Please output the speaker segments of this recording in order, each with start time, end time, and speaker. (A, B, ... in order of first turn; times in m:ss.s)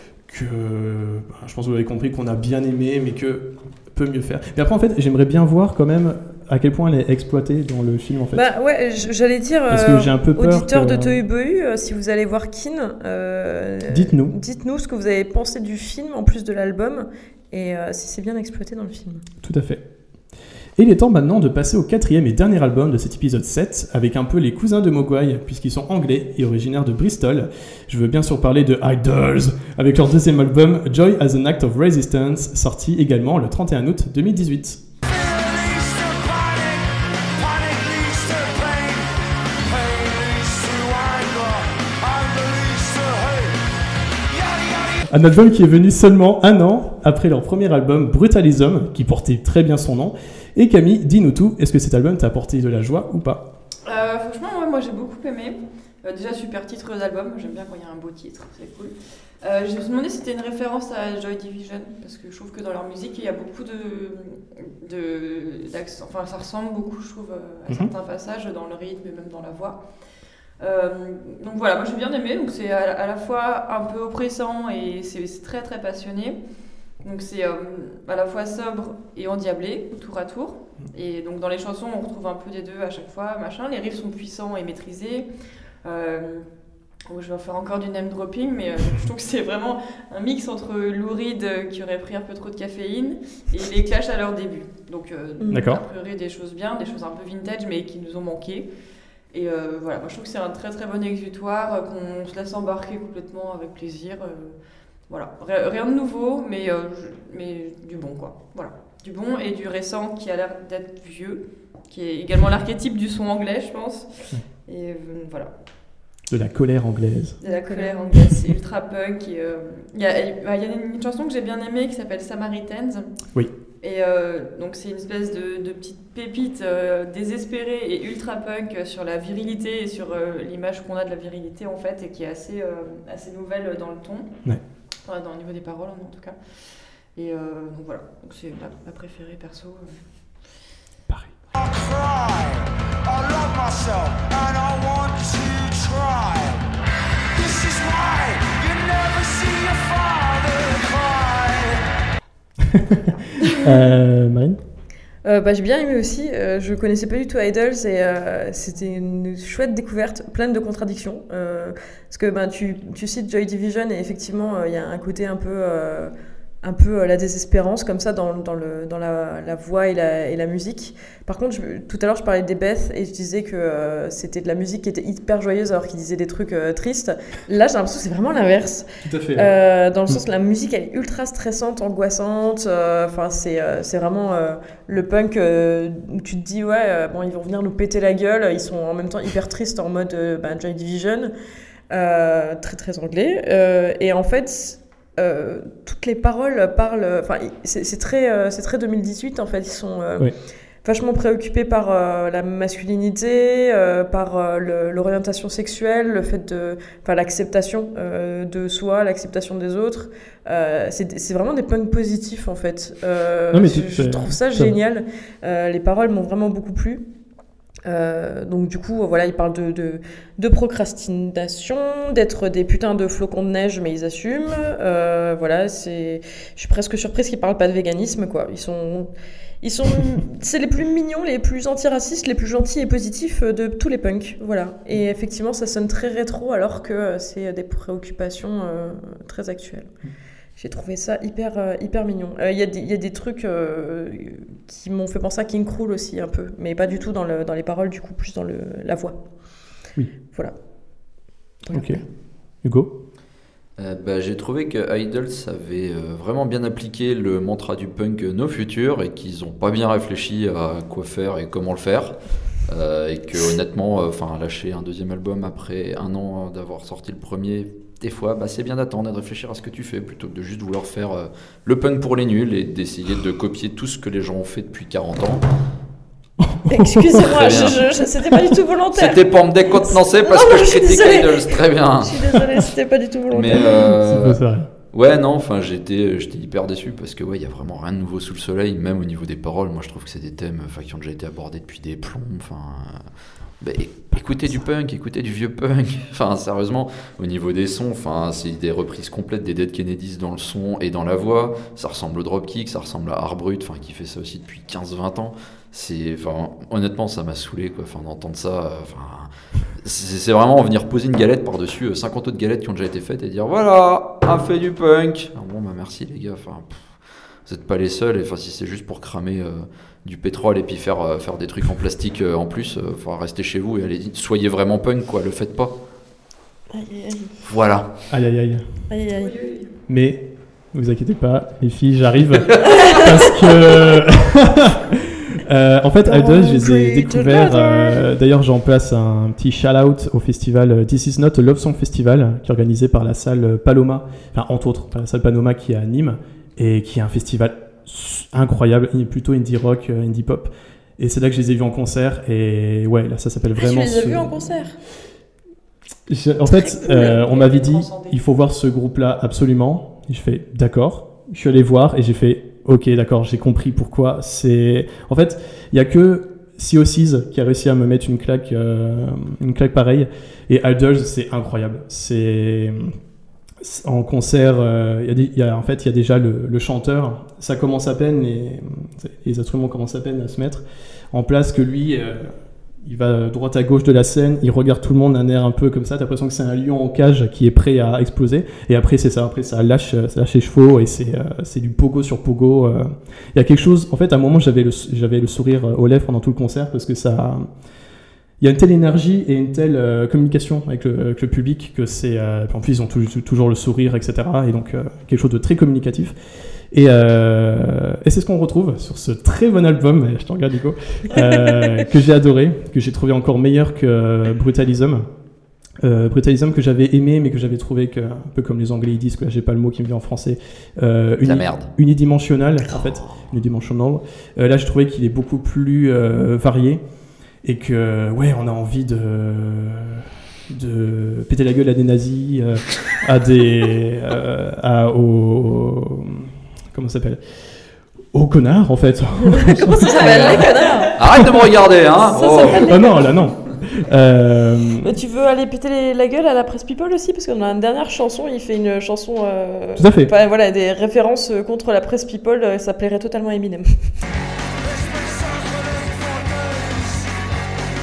0:00.2-0:08.5 A
0:08.3-0:19.2 B
0:09.7-0:11.2 A
0:13.9-0:14.3 A
0:19.4-0:19.8 A
0:20.8-0:34.8 A
0:35.0-0:43.6 C
0:44.3-0:45.0 C
0:45.1-0:53.5 A
0:53.8-1:09.8 D
1:10.6-1:16.4 D
1:17.0-1:25.3 D
1:25.8-1:26.4 D
1:27.0-1:38.7 D
1:35.4-1:35.7 B
1:35.5-1:35.8 A
1:39.3-1:44.6 D
1:45.1-1:55.5 D
1:56.3-1:57.4 A
1:57.4-2:03.1 D
1:57.4-1:57.9 B
2:03.8-2:14.3 D
2:15.0-2:20.0 D
2:21.1-2:21.3 A
2:21.5-2:26.7 C
2:27.3-2:31.8 C
2:32.6-2:33.0 A
2:33.5-2:34.6 A
2:35.2-2:46.1 B
2:46.6-3:11.3 B
2:59.0-2:59.5 A
3:11.9-3:20.3 B
3:20.8-3:37.0 B
3:33.5-3:34.8 A
3:37.8-3:49.1 B
3:49.6-3:59.9 B
4:00.6-4:09.2 B
4:11.6-4:12.0 B
4:11.7-4:12.0 A
4:12.6-4:12.9 A
4:13.8-4:35.4 E
4:36.4-4:37.3 A
4:36.7-4:39.3 B
4:37.2-4:37.9 E
4:38.9-4:42.2 E
4:39.8-4:43.7 B
4:43.3-4:53.1 E
4:43.5-4:44.7 A
4:53.6-5:25.7 E
5:26.7-5:27.3 B
5:27.4-5:27.9 E
5:28.1-5:28.8 A
5:28.9-5:29.4 B
5:29.2-5:29.7 D
5:29.9-5:54.6 A
5:32.6-5:33.1 B
5:36.0-5:38.0 B
5:53.6-5:54.7 B
5:56.1-6:12.9 A
5:56.4-5:57.2 B
5:56.9-5:58.2 D
6:13.6-6:37.5 A
6:38.4-6:46.2 A
6:46.7-6:55.0 A
6:55.8-7:06.8 A
7:01.2-7:01.7 E
7:02.7-7:03.3 E
7:07.4-7:17.2 A
7:18.1-7:21.5 A
7:19.3-7:21.0 B
7:21.0-7:22.8 E
7:22.0-7:23.1 B
7:22.6-7:24.9 A
7:24.8-7:33.7 B
7:29.8-7:30.1 A
7:34.6-7:37.4 C